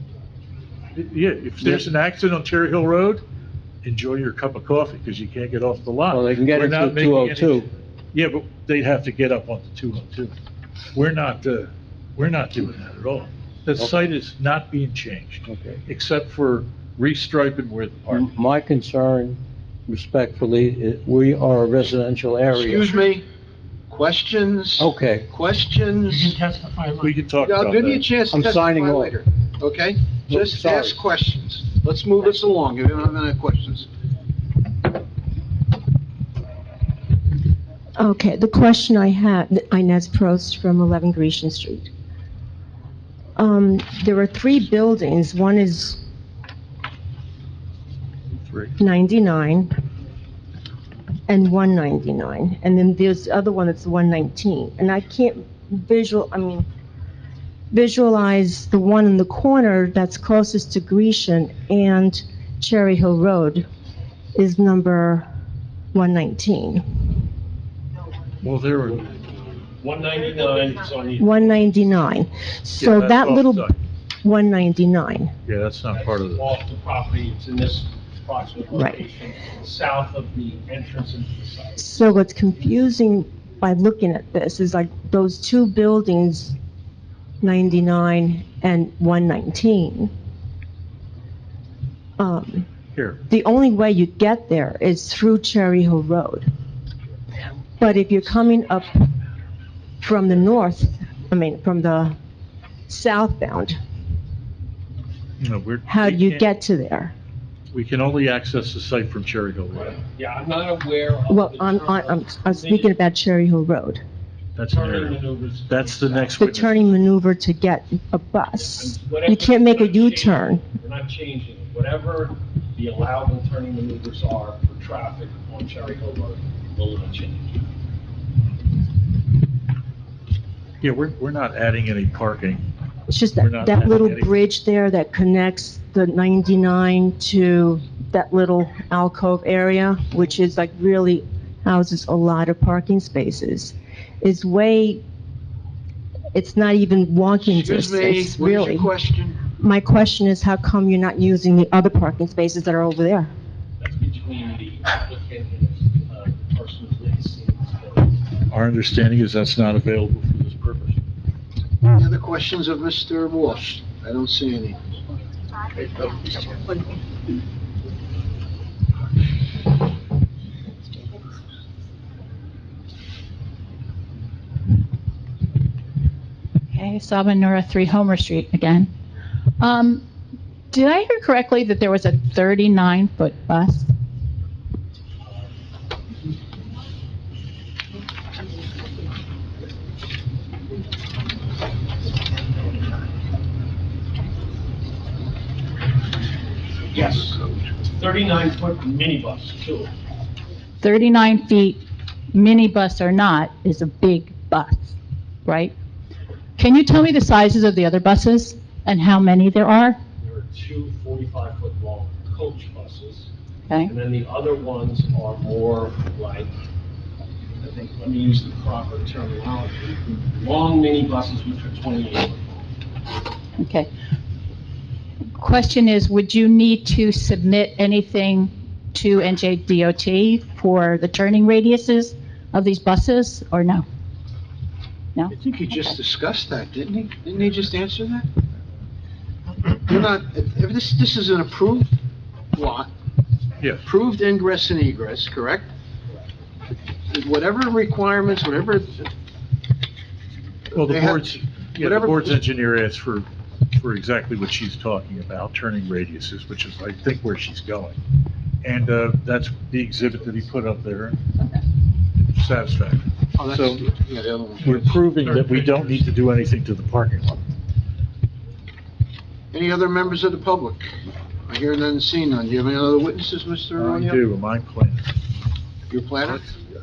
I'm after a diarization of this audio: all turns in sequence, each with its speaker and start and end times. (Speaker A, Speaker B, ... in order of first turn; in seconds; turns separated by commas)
Speaker A: 0.9-3.2, Speaker A: 3.8-10.3, Speaker B: 6.1-7.7, Speaker A: 10.9-18.3, Speaker B: 15.5-15.8, Speaker B: 18.1-22.9, Speaker C: 22.5-23.3, Speaker C: 23.9-26.4, Speaker B: 24.8-25.3, Speaker A: 27.0-28.1, Speaker C: 27.4-33.9, Speaker B: 28.3-29.1, Speaker B: 30.3-31.0, Speaker D: 38.0-41.9, Speaker D: 43.4-46.0, Speaker A: 48.4-48.8, Speaker D: 48.8-49.7, Speaker D: 51.3-56.7, Speaker D: 57.7-63.7, Speaker D: 64.4-65.3, Speaker D: 65.9-67.1, Speaker A: 68.4-69.1, Speaker E: 69.8-71.8, Speaker D: 71.2-73.7, Speaker A: 72.8-73.8, Speaker D: 74.2-75.3, Speaker A: 75.5-76.5, Speaker E: 75.9-82.0, Speaker D: 78.7-79.0, Speaker D: 81.8-86.5, Speaker D: 87.4-90.1, Speaker D: 92.2-92.7, Speaker A: 92.9-93.2, Speaker D: 93.3-96.5, Speaker D: 97.8-99.2, Speaker D: 100.0-102.2, Speaker D: 102.9-103.8, Speaker A: 105.4-106.5, Speaker D: 105.9-107.1, Speaker A: 107.7-110.0, Speaker E: 109.8-112.9, Speaker D: 111.3-114.0, Speaker A: 114.6-116.9, Speaker E: 114.7-116.4, Speaker D: 116.4-120.6, Speaker E: 118.6-127.7, Speaker A: 130.8-132.7, Speaker D: 133.1-145.0, Speaker A: 133.4-134.4, Speaker D: 146.3-148.9, Speaker C: 147.4-149.4, Speaker D: 149.5-153.3, Speaker E: 153.8-158.2, Speaker A: 158.5-161.0, Speaker C: 161.8-164.9, Speaker F: 176.7-178.9, Speaker F: 179.6-180.1, Speaker F: 180.7-183.9, Speaker E: 196.9-199.9, Speaker F: 200.8-204.9, Speaker F: 205.4-205.7, Speaker F: 206.6-210.0, Speaker E: 210.2-213.3, Speaker E: 213.8-216.5, Speaker E: 217.6-222.6, Speaker F: 223.6-223.9, Speaker F: 225.4-233.8, Speaker C: 235.3-238.3, Speaker C: 239.7-241.9, Speaker C: 242.5-242.9, Speaker C: 243.8-245.7, Speaker C: 247.1-249.1, Speaker A: 250.7-258.0, Speaker C: 250.8-252.3, Speaker A: 258.6-261.3, Speaker A: 262.3-263.9, Speaker C: 263.4-264.8, Speaker A: 264.6-267.4, Speaker C: 269.5-274.2, Speaker A: 273.8-275.1, Speaker C: 275.9-276.6